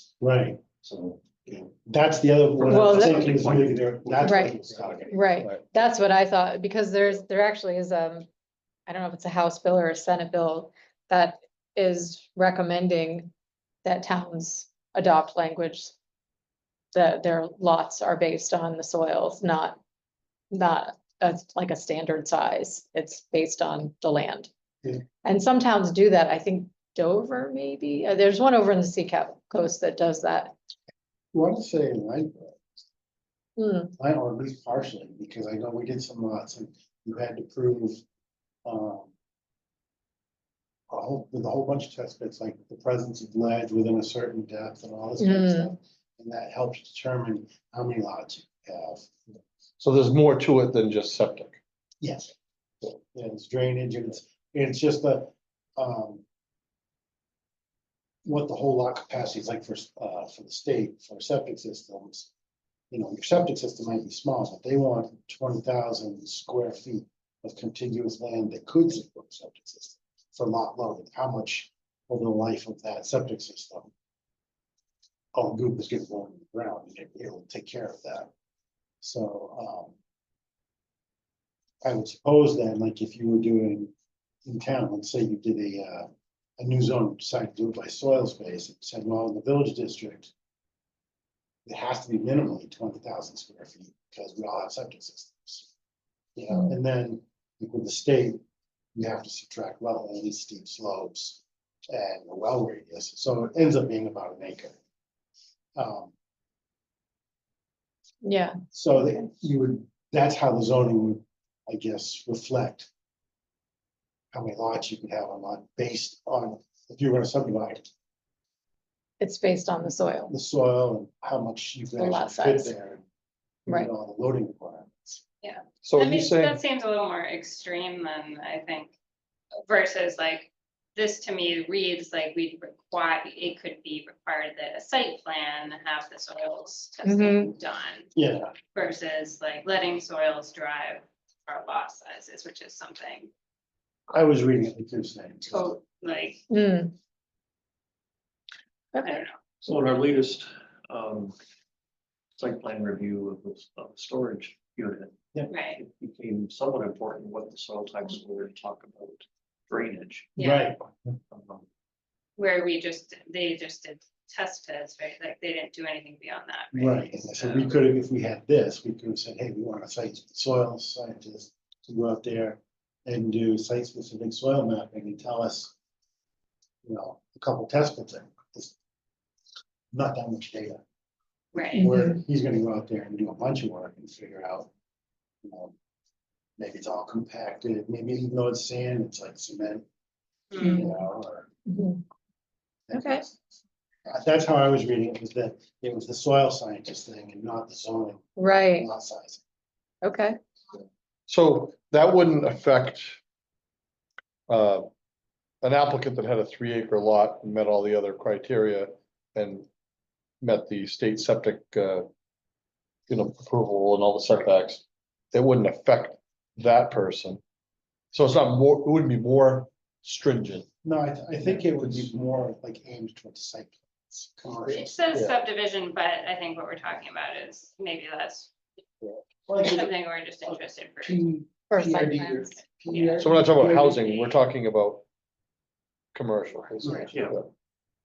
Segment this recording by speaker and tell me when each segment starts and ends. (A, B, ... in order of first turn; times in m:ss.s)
0:00.2-0:00.6 A
0:00.8-0:01.7 B
0:01.8-0:05.2 A
0:02.6-0:05.2 B
0:02.6-0:03.2 C
0:04.2-0:04.5 C
0:05.1-0:08.3 C
0:08.9-0:13.3 C
0:13.8-0:15.9 C
0:16.9-0:19.8 C
0:20.5-0:24.5 C
0:25.2-0:30.5 C
0:31.3-0:32.8 A
0:33.6-0:33.9 C
0:34.0-0:38.0 A
0:38.6-0:39.1 A
0:40.9-0:49.1 A
0:45.2-0:45.7 C
0:49.8-0:51.6 D
0:52.0-0:52.3 A
0:52.9-0:56.2 A
0:58.2-1:02.3 A
1:02.9-1:13.9 A
1:15.3-1:18.3 A
1:19.0-1:19.9 A
1:21.8-1:23.9 A
1:24.4-1:30.3 A
1:31.6-1:35.7 A
1:36.4-1:38.4 A
1:38.9-1:44.8 A
1:45.8-1:46.1 A
1:48.2-1:48.6 C
1:48.7-1:52.9 A
1:54.3-1:57.9 A
1:59.2-2:00.3 C
2:00.3-2:03.0 A
2:02.0-2:02.7 C
2:03.6-2:05.2 A
2:05.4-2:08.9 E
2:05.8-2:06.6 D
2:09.6-2:18.1 E
2:17.0-2:17.5 C
2:18.1-2:18.5 A
2:18.7-2:23.3 E
2:24.1-2:25.7 A
2:25.5-2:26.4 E
2:26.5-2:26.9 C
2:28.9-2:29.2 C
2:29.0-2:29.4 E
2:29.6-2:31.3 B
2:32.4-2:40.3 B
2:35.5-2:35.8 E
2:40.4-2:40.7 E
2:40.4-2:40.8 A
2:41.3-2:41.6 B
2:42.4-2:47.7 E
2:46.7-2:55.7 A
2:56.8-2:58.8 A
2:59.9-3:00.8 A
3:01.5-3:01.9 E
3:01.7-3:04.7 A
3:01.7-3:02.2 C
3:05.4-3:05.7 A
3:06.6-3:09.8 A
3:10.5-3:10.8 E
3:10.6-3:10.9 C
3:10.6-3:11.5 A
3:11.7-3:12.0 C
3:12.9-3:13.4 A
3:12.9-3:13.2 C
3:14.0-3:19.4 A
3:18.4-3:18.9 C
3:20.0-3:20.4 C
3:21.3-3:23.2 D
3:24.5-3:24.9 D
3:25.6-3:29.7 D
3:30.4-3:32.1 D
3:33.1-3:37.4 D
3:38.1-3:40.6 D
3:40.8-3:45.0 A
3:41.4-3:42.1 D
3:44.7-3:48.5 E
3:49.4-3:49.9 A
3:49.6-3:51.2 E
3:50.4-3:54.0 A
3:51.7-3:52.6 C
3:52.9-3:54.4 E
3:53.2-3:55.0 D
3:56.1-3:57.5 D
3:56.8-3:57.1 A
3:57.1-3:57.4 B